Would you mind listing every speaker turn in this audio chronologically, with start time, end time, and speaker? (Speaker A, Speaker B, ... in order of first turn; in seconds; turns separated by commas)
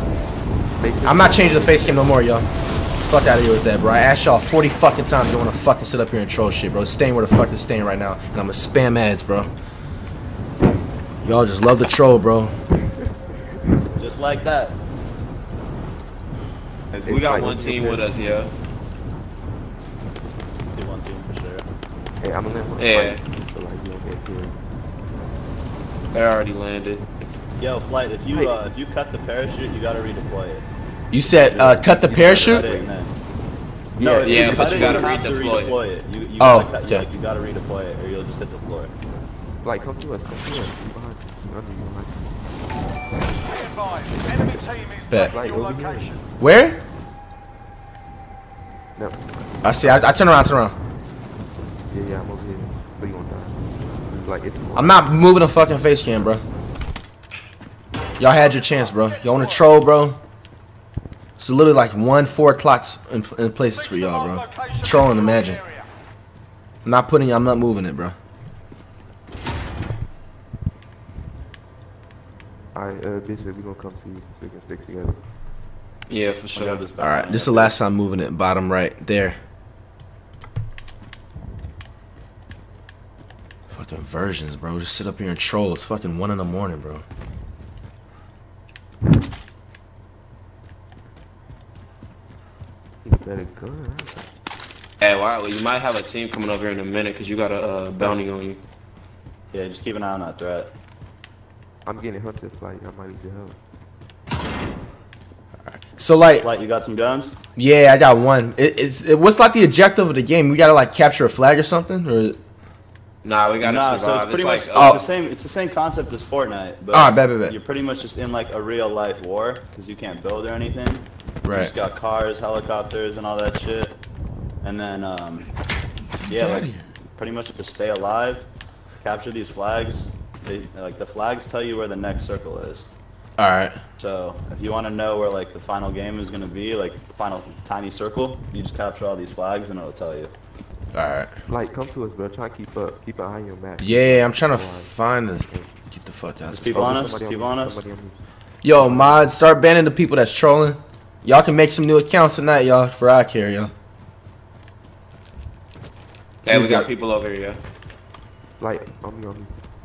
Speaker A: 0.8-2.0, Speaker B: 1.0-2.5, Speaker B: 3.1-9.5, Speaker B: 11.2-12.5, Speaker C: 14.0-14.8, Speaker D: 16.9-18.5, Speaker A: 17.0-18.1, Speaker C: 20.7-21.6, Speaker A: 22.2-24.6, Speaker D: 22.8-23.2, Speaker D: 26.1-27.0, Speaker C: 27.6-30.7, Speaker A: 28.3-28.5, Speaker B: 31.1-32.7, Speaker C: 31.3-33.1, Speaker A: 32.0-33.0, Speaker A: 34.0-35.2, Speaker D: 34.0-35.8, Speaker C: 34.0-38.9, Speaker B: 36.4-37.0, Speaker A: 39.6-42.2, Speaker E: 43.5-46.2, Speaker A: 45.2-46.1, Speaker B: 46.4-46.8, Speaker A: 49.0-50.2, Speaker B: 49.6-50.7, Speaker A: 51.9-55.1, Speaker B: 54.7-56.4, Speaker B: 58.2-60.2, Speaker E: 58.4-59.6, Speaker B: 61.4-65.6, Speaker E: 63.8-65.9, Speaker B: 66.8-68.2, Speaker A: 72.7-75.2, Speaker D: 76.1-76.8, Speaker C: 76.5-77.8, Speaker B: 77.0-79.4, Speaker B: 83.7-87.0, Speaker A: 93.0-94.2, Speaker D: 95.0-98.6, Speaker C: 99.5-100.7, Speaker A: 101.8-103.6, Speaker B: 105.6-106.5, Speaker C: 106.4-107.4, Speaker B: 107.5-112.4, Speaker D: 113.2-115.1, Speaker C: 113.6-124.0, Speaker B: 114.7-115.1, Speaker B: 116.9-117.5, Speaker B: 121.4-121.7, Speaker C: 124.6-125.5, Speaker B: 126.2-126.8, Speaker C: 126.3-128.5, Speaker C: 129.0-132.9, Speaker B: 133.4-133.8, Speaker C: 134.0-140.3, Speaker B: 140.9-141.4, Speaker A: 141.4-145.7, Speaker B: 143.8-147.1, Speaker C: 146.5-147.8, Speaker A: 146.7-149.2, Speaker B: 148.6-153.7, Speaker D: 156.4-157.6, Speaker B: 156.5-156.9, Speaker A: 158.6-159.6